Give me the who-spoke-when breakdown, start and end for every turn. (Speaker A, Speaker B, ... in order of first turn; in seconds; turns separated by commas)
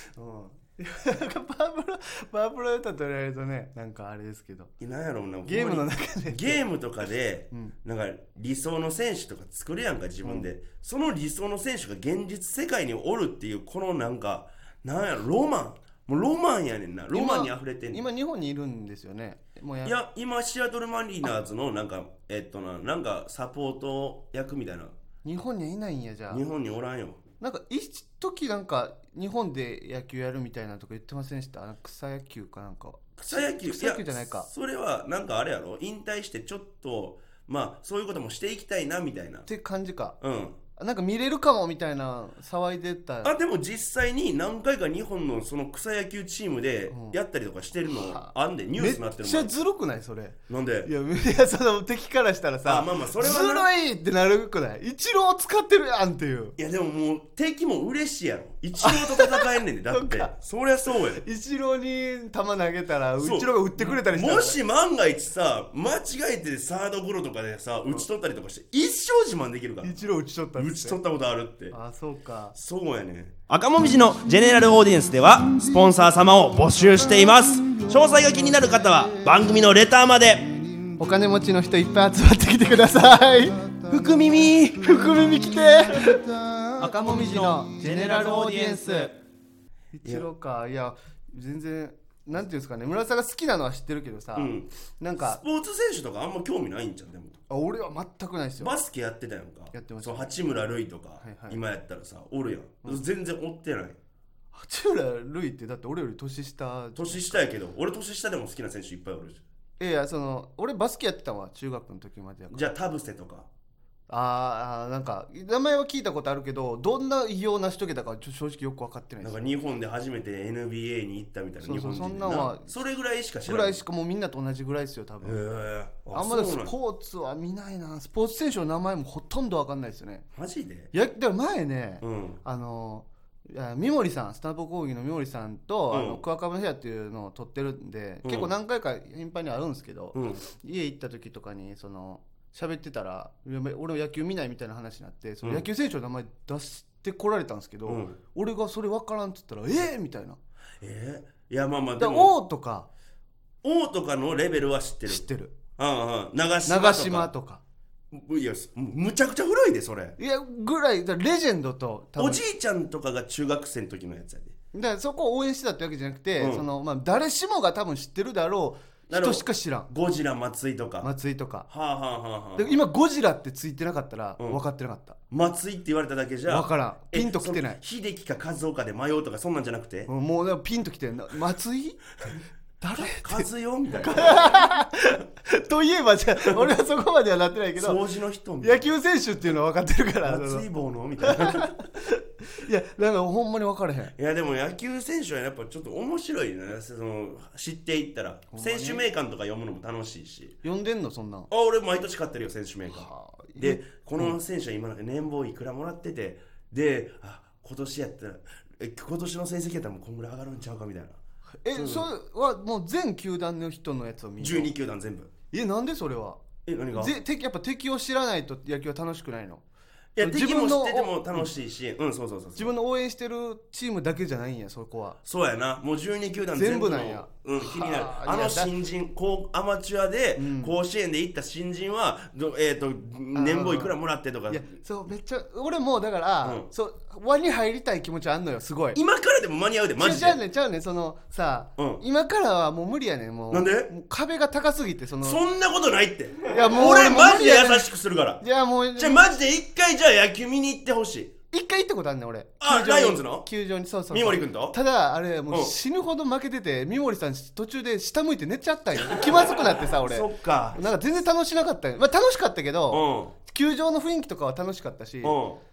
Speaker A: 0.1-4.7, Speaker B: 4.8-18.0, Speaker A: 5.5-6.6, Speaker A: 17.1-19.9, Speaker B: 19.8-24.9, Speaker A: 25.2-26.4, Speaker B: 26.3-27.2, Speaker A: 27.4-34.5, Speaker B: 33.2-39.5, Speaker A: 39.5-40.2, Speaker B: 40.2-40.6, Speaker A: 40.8-43.3, Speaker B: 43.2-49.5, Speaker A: 46.9-47.2, Speaker A: 47.9-56.5, Speaker B: 50.5-50.9, Speaker B: 52.6-53.7, Speaker B: 56.6-61.2, Speaker A: 58.8-60.3, Speaker A: 61.1-64.6, Speaker B: 63.2-69.9, Speaker A: 69.8-71.0, Speaker B: 70.5-71.7, Speaker A: 71.7-72.5, Speaker B: 72.5-80.5, Speaker A: 81.0-83.8, Speaker B: 83.8-85.1, Speaker A: 84.7-89.1, Speaker B: 86.8-89.0, Speaker A: 89.9-95.4, Speaker B: 94.3-97.4, Speaker A: 97.5-98.7, Speaker B: 98.6-104.0, Speaker A: 99.7-100.3, Speaker A: 101.2-101.6, Speaker A: 104.5-107.4, Speaker B: 107.0-109.4, Speaker A: 109.8-112.7, Speaker B: 112.5-113.5, Speaker A: 114.1-119.5, Speaker B: 119.2-123.8, Speaker A: 121.6-122.7, Speaker A: 123.4-125.4, Speaker B: 125.2-126.7, Speaker A: 126.1-130.2, Speaker B: 130.3-130.9, Speaker A: 130.9-150.4, Speaker B: 132.0-132.4, Speaker B: 135.9-136.2, Speaker B: 138.2-138.5, Speaker B: 140.1-140.4, Speaker B: 147.9-148.2, Speaker B: 150.8-152.3, Speaker A: 152.0-152.9, Speaker B: 153.6-155.2, Speaker A: 155.1-155.5, Speaker B: 155.8-157.3, Speaker A: 156.7-157.6, Speaker B: 158.1-160.2, Speaker A: 160.2-162.4, Speaker B: 162.2-164.5, Speaker A: 164.7-169.9, Speaker B: 166.4-166.6, Speaker B: 169.1-171.1, Speaker A: 171.0-171.7, Speaker B: 171.7-172.8, Speaker A: 172.6-175.2, Speaker B: 175.3-180.1, Speaker A: 176.5-177.8, Speaker A: 180.1-183.5, Speaker B: 183.0-184.3, Speaker A: 184.0-188.0, Speaker B: 187.8-188.9, Speaker A: 188.6-190.7, Speaker B: 190.2-191.7, Speaker A: 191.2-194.1, Speaker B: 194.2-200.6, Speaker A: 198.5-199.1, Speaker A: 200.6-201.5, Speaker B: 201.5-211.2, Speaker A: 202.9-204.4, Speaker A: 211.6-214.7, Speaker B: 211.7-212.1, Speaker B: 214.4-215.3, Speaker A: 215.5-216.4, Speaker B: 216.7-217.1, Speaker A: 216.9-219.6, Speaker B: 220.1-222.7, Speaker A: 220.2-221.5, Speaker A: 222.6-225.2, Speaker B: 225.2-234.7, Speaker A: 226.5-228.7, Speaker A: 230.4-230.7, Speaker A: 233.3-233.9, Speaker A: 234.5-239.0, Speaker B: 238.9-240.4, Speaker A: 240.0-245.4, Speaker B: 241.8-242.0, Speaker B: 243.5-243.9, Speaker B: 245.2-248.4, Speaker A: 246.5-247.9, Speaker A: 248.4-249.3, Speaker B: 248.9-251.3, Speaker A: 251.5-265.4, Speaker B: 252.6-253.4, Speaker B: 254.1-254.8, Speaker B: 259.0-259.5, Speaker B: 260.0-260.8, Speaker B: 262.9-263.3, Speaker B: 265.2-265.6